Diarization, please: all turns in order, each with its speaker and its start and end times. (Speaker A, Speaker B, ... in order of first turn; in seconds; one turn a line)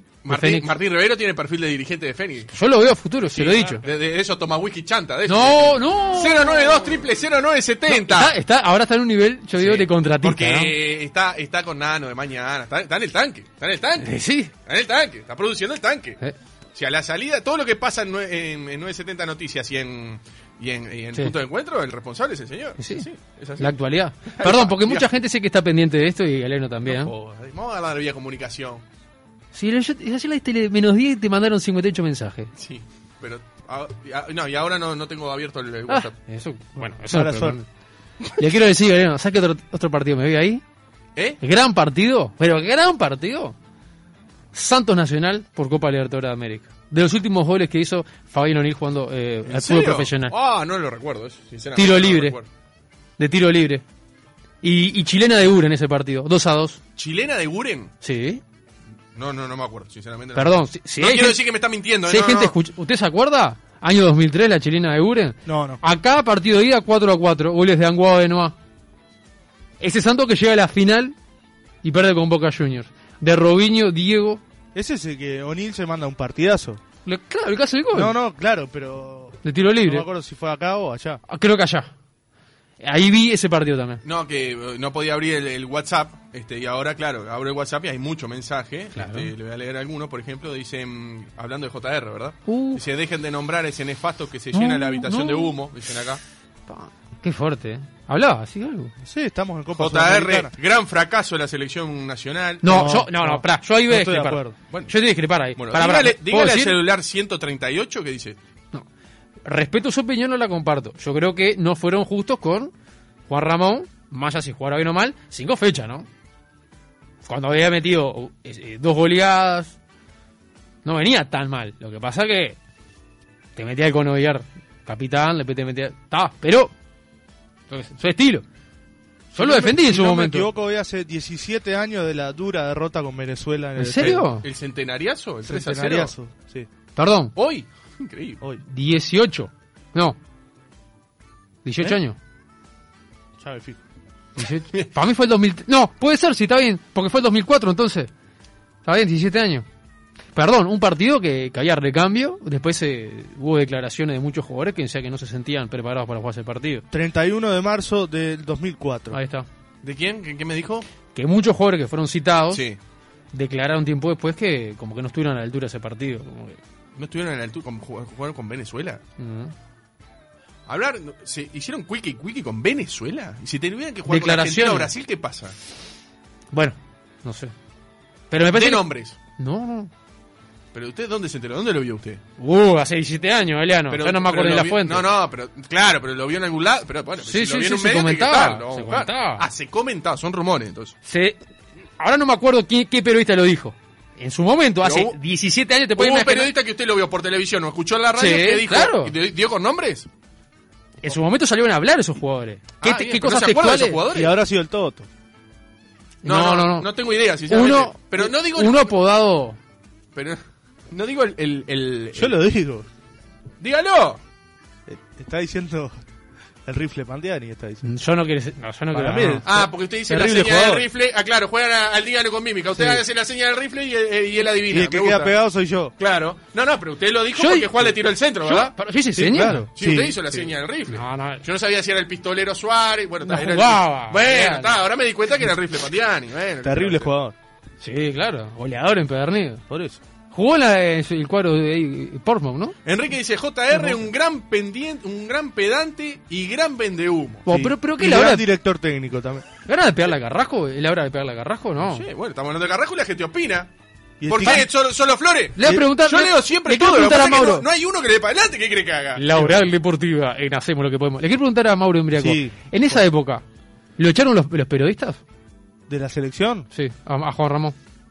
Speaker A: 0.2-2.5
Speaker B: 0.3-0.7
Speaker B: 2.5-3.8
Speaker A: 3.3-8.3
Speaker B: 5.3-6.7
Speaker B: 7.9-10.7
Speaker A: 9.6-14.1
Speaker B: 14.0-14.5
Speaker A: 14.6-16.2
Speaker A: 16.7-25.1
Speaker B: 22.8-23.1
Speaker B: 23.6-27.1
Speaker A: 26.8-28.8
Speaker B: 29.5-32.5
Speaker A: 32.5-36.1
Speaker B: 35.9-37.6
Speaker C: 36.8-37.6
Speaker B: 38.4-40.6
Speaker B: 41.4-43.5
Speaker B: 44.5-50.3
Speaker A: 49.5-52.5
Speaker B: 51.7-52.4
Speaker B: 53.2-53.8
Speaker B: 54.6-56.8
Speaker A: 57.0-57.9
Speaker B: 58.0-58.4
Speaker A: 59.1-62.5
Speaker B: 60.3-61.4
Speaker B: 62.0-68.5
Speaker C: 65.5-65.8
Speaker B: 69.8-71.2
Speaker B: 71.8-74.4
Speaker C: 74.7-76.8
Speaker B: 77.0-78.1
Speaker C: 77.9-81.2
Speaker B: 79.4-80.1
Speaker B: 81.3-81.9
Speaker B: 82.8-84.0
Speaker A: 84.0-96.2
Speaker B: 88.9-89.3
Speaker B: 92.5-92.8
Speaker B: 94.5-95.5
Speaker B: 96.7-98.9
Speaker C: 99.0-100.5
Speaker A: 99.8-102.9
Speaker B: 102.6-106.8
Speaker C: 102.6-104.5
Speaker A: 105.5-108.4
Speaker B: 109.4-112.7
Speaker B: 113.3-116.1
Speaker B: 117.2-119.8
Speaker B: 120.8-122.6
Speaker B: 123.5-126.7
Speaker B: 127.7-128.4
Speaker C: 129.3-134.3
Speaker B: 129.3-130.5
Speaker B: 133.8-134.4
Speaker A: 134.0-136.1
Speaker C: 135.4-136.7
Speaker B: 136.9-137.3
Speaker A: 137.3-138.4
Speaker B: 138.6-140.2
Speaker B: 141.6-142.2
Speaker C: 143.4-143.8
Speaker B: 144.4-148.1
Speaker B: 148.8-149.6
Speaker B: 150.3-156.8
Speaker C: 156.9-159.2
Speaker B: 159.1-159.5
Speaker A: 159.8-160.8
Speaker B: 161.1-162.6
Speaker A: 162.5-162.8
Speaker B: 163.3-166.6
Speaker A: 166.9-169.0
Speaker B: 169.2-169.5
Speaker A: 170.7-175.5
Speaker B: 174.1-174.9
Speaker B: 176.5-177.5
Speaker B: 178.3-178.8
Speaker A: 178.5-179.2
Speaker B: 179.4-179.9
Speaker A: 180.7-182.2
Speaker B: 182.4-185.1
Speaker A: 183.9-190.9
Speaker B: 187.2-189.4
Speaker B: 191.1-191.4
Speaker B: 192.0-196.5
Speaker A: 194.8-195.2
Speaker A: 195.9-200.1
Speaker B: 198.2-199.1
Speaker B: 201.0-204.0
Speaker A: 202.8-204.4
Speaker C: 204.1-205.1
Speaker B: 206.2-206.9
Speaker A: 206.2-208.9
Speaker B: 207.5-209.6
Speaker A: 210.1-212.3
Speaker C: 212.1-212.9
Speaker A: 213.6-214.2
Speaker C: 214.9-216.0
Speaker C: 216.7-217.8
Speaker B: 217.8-220.4
Speaker C: 218.9-220.8
Speaker A: 219.4-225.3
Speaker C: 224.7-225.9
Speaker A: 226.0-228.7
Speaker B: 227.3-229.7
Speaker C: 229.1-230.2
Speaker A: 229.7-237.1
Speaker B: 230.9-231.4
Speaker B: 233.2-234.8
Speaker C: 236.6-237.3
Speaker B: 237.8-239.6
Speaker C: 239.7-240.0
Speaker B: 240.3-242.8
Speaker A: 242.8-247.5
Speaker B: 243.7-244.0
Speaker B: 247.4-248.4
Speaker C: 247.5-249.4
Speaker B: 249.7-252.0
Speaker A: 251.8-253.7
Speaker C: 254.2-254.7
Speaker A: 254.2-259.2
Speaker B: 255.6-257.7
Speaker B: 259.1-263.4
Speaker C: 259.3-259.6
Speaker C: 262.1-263.0
Speaker B: 264.0-265.2
Speaker C: 265.9-266.7
Speaker B: 266.7-267.7